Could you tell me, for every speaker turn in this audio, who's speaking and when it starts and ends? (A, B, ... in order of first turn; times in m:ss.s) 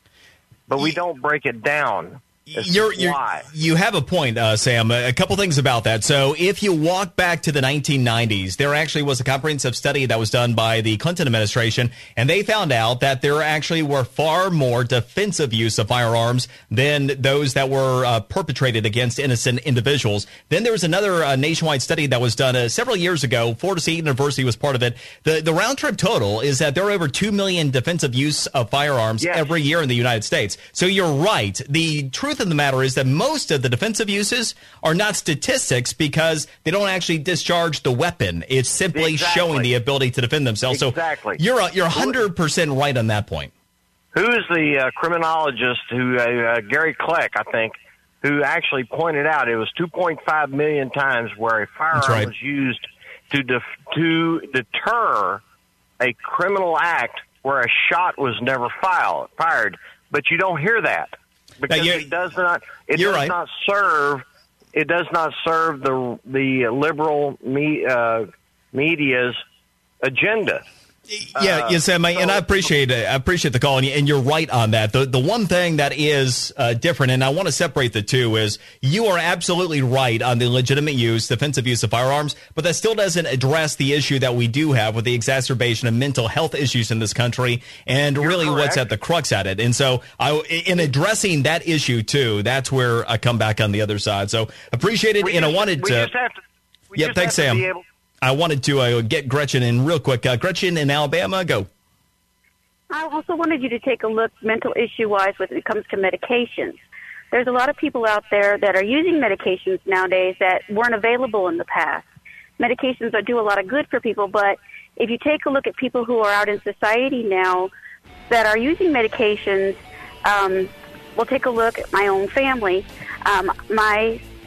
0:00.7-0:03.5 A
0:02.5-0:43.5 B
0:29.2-0:29.5 A
0:38.9-0:39.7 A
0:40.7-0:41.4 A
0:41.9-0:42.2 A
0:44.1-0:55.4 A
0:51.9-0:52.3 B
0:56.0-1:09.4 A
1:01.7-1:02.1 B
1:03.0-1:03.3 B
1:10.0-1:10.6 A
1:11.1-1:36.1 B
1:11.4-1:12.7 A
1:28.2-1:28.8 A
1:35.2-1:36.4 A
1:36.9-1:37.8 A
1:37.0-1:37.7 B
1:38.2-1:41.7 B
1:42.9-1:46.8 C
1:47.3-1:52.1 C
1:52.6-1:57.7 C
1:58.3-2:04.2 C